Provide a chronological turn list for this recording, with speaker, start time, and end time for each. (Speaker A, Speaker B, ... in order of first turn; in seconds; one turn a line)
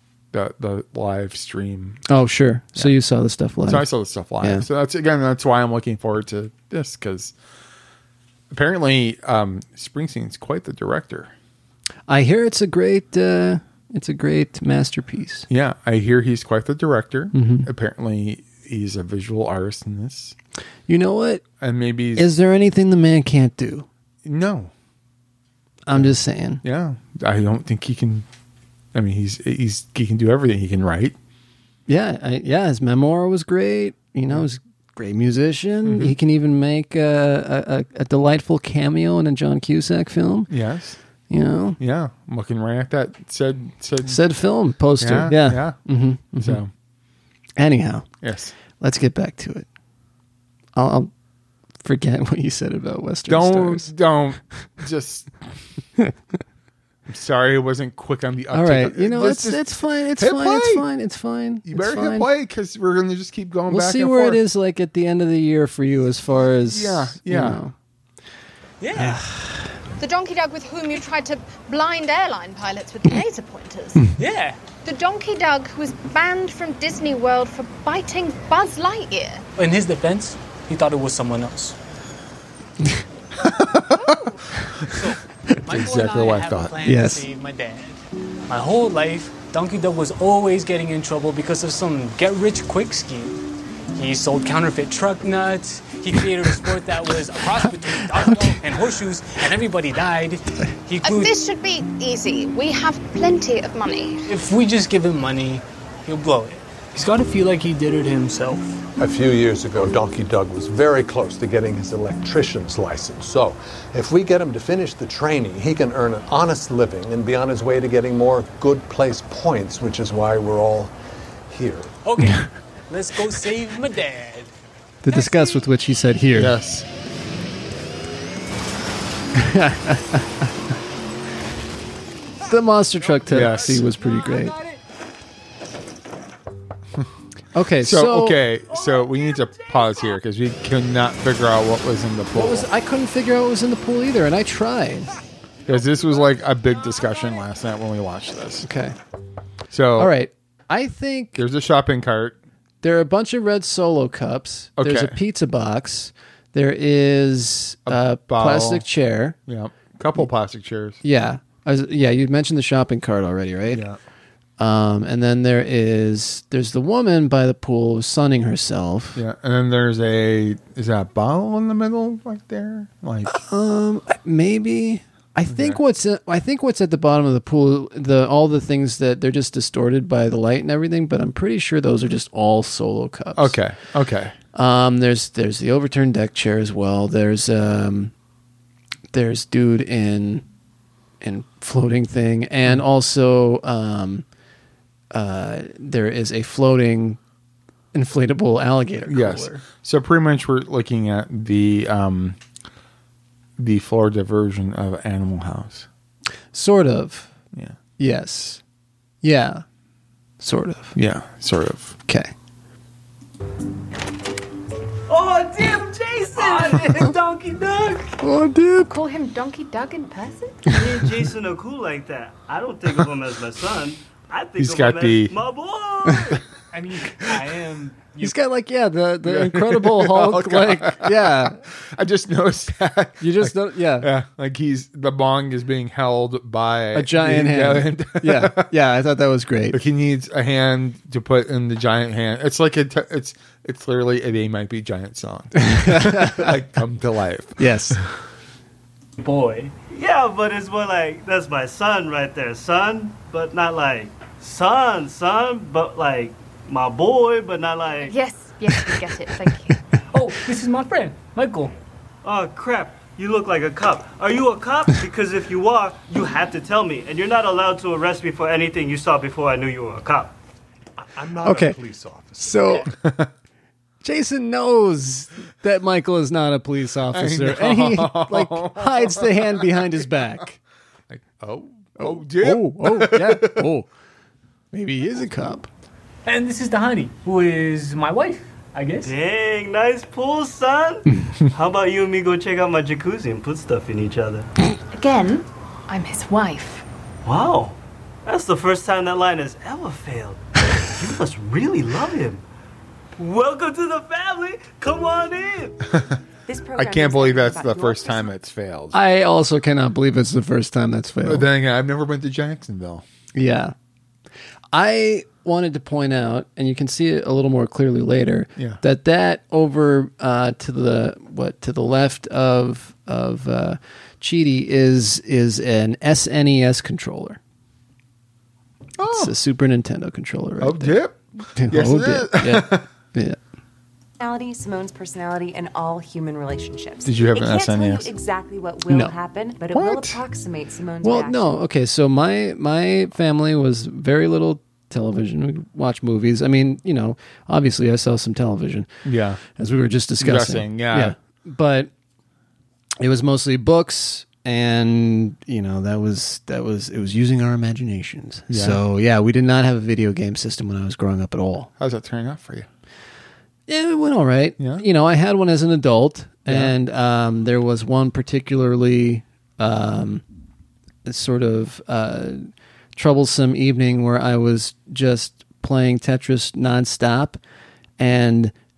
Speaker A: 0.3-2.0
Speaker B: 2.1-3.9
Speaker A: 3.6-7.3
Speaker B: 4.4-4.7
Speaker A: 8.5-11.3
Speaker B: 12.1-15.4
Speaker A: 15.5-20.3
Speaker B: 17.3-17.7
Speaker B: 20.9-21.4
Speaker A: 21.6-22.4
Speaker B: 22.1-23.9
Speaker A: 24.2-24.7
Speaker B: 25.9-26.6
Speaker A: 25.9-28.2
Speaker A: 28.9-31.1
Speaker B: 31.9-40.5
Speaker A: 35.8-36.1
Speaker A: 40.5-41.0
Speaker B: 41.3-41.8
Speaker A: 41.8-44.2
Speaker B: 44.0-46.6
Speaker A: 45.0-45.8
Speaker A: 46.4-46.7
Speaker B: 47.6-48.1
Speaker A: 48.2-48.5
Speaker B: 48.8-49.6
Speaker B: 50.7-51.1
Speaker B: 51.8-53.9
Speaker A: 53.3-55.3
Speaker A: 57.1-60.9
Speaker B: 58.5-62.3
Speaker A: 61.7-64.4
Speaker B: 63.7-67.7
Speaker A: 66.7-67.6
Speaker C: 68.8-69.2
Speaker B: 68.9-69.6
Speaker D: 70.0-74.0
Speaker C: 74.2-74.6
Speaker D: 74.8-79.4
Speaker C: 79.6-81.8
Speaker A: 83.4-84.2
Speaker D: 83.9-84.4
Speaker C: 84.9-93.4
Speaker A: 85.7-86.8
Speaker B: 86.8-87.2
Speaker C: 93.9-101.4
Speaker D: 101.0-104.2
Speaker C: 104.2-108.7
Speaker E: 109.0-120.9
Speaker E: 121.5-121.9
Speaker C: 122.0-124.5
Speaker B: 125.0-126.5
Speaker A: 126.3-126.8
Speaker B: 129.3-130.5
Speaker B: 132.5-134.6
Speaker A: 133.3-133.9
Speaker C: 134.0-134.7
Speaker B: 137.5-138.4
Speaker A: 137.8-142.7
Speaker B: 142.3-145.1
Speaker A: 145.7-148.7
Speaker B: 148.6-148.9
Speaker A: 149.7-150.1
Speaker B: 150.0-151.4
Speaker A: 151.3-152.4
Speaker B: 152.8-159.4
Speaker A: 154.8-155.2
Speaker A: 157.8-158.9
Speaker A: 159.5-161.0
Speaker B: 161.0-163.8
Speaker A: 163.7-164.0
Speaker B: 164.6-169.2
Speaker A: 169.2-173.4
Speaker B: 173.2-183.6
Speaker A: 175.5-175.8
Speaker A: 183.3-184.3
Speaker B: 184.5-188.1
Speaker B: 189.1-190.4
Speaker B: 191.2-194.2
Speaker B: 195.1-197.2
Speaker B: 197.9-199.6
Speaker A: 199.1-202.4
Speaker A: 203.6-205.9
Speaker B: 206.5-207.3
Speaker B: 208.0-208.6
Speaker B: 209.2-209.6
Speaker B: 210.4-211.0
Speaker A: 210.9-212.0
Speaker B: 212.1-212.3
Speaker F: 215.1-217.1
Speaker C: 215.6-218.1
Speaker B: 218.2-218.9
Speaker D: 218.8-220.7
Speaker F: 220.6-226.4
Speaker A: 224.6-225.4
Speaker C: 226.7-228.3
Speaker B: 228.2-231.6
Speaker A: 229.2-238.7
Speaker B: 233.2-234.1
Speaker B: 236.9-239.8
Speaker A: 239.7-248.0
Speaker B: 245.6-246.6
Speaker B: 247.6-248.0
Speaker C: 249.2-249.7
Speaker F: 249.9-258.1
Speaker D: 258.0-259.8
Speaker C: 260.1-261.7
Speaker F: 262.2-270.3
Speaker E: 271.0-272.9
Speaker B: 271.4-271.8
Speaker B: 272.4-272.9
Speaker A: 272.9-273.3
Speaker B: 274.0-280.6
Speaker A: 277.1-279.9
Speaker A: 281.1-283.7
Speaker B: 282.0-283.9
Speaker B: 284.7-285.7
Speaker C: 286.2-289.1
Speaker F: 289.0-294.5
Speaker D: 295.0-296.8
Speaker F: 297.2-302.4
Speaker F: 303.2-305.9
Speaker G: 306.5-308.3
Speaker A: 306.7-309.0
Speaker B: 308.9-311.5
Speaker A: 311.2-313.0
Speaker B: 313.3-313.7
Speaker B: 314.7-327.4
Speaker A: 318.6-318.8
Speaker A: 329.0-329.3
Speaker B: 329.1-331.0
Speaker A: 330.6-332.9
Speaker B: 331.5-333.4
Speaker G: 334.2-341.6
Speaker A: 337.0-338.1
Speaker A: 339.7-340.2
Speaker B: 341.0-348.9
Speaker A: 349.0-349.4
Speaker B: 349.6-351.9
Speaker A: 350.2-351.1
Speaker B: 353.0-361.7
Speaker A: 358.5-358.8
Speaker A: 361.8-362.7
Speaker B: 363.7-370.2
Speaker A: 364.6-364.8
Speaker A: 366.5-366.7
Speaker B: 371.0-377.4
Speaker B: 378.0-378.5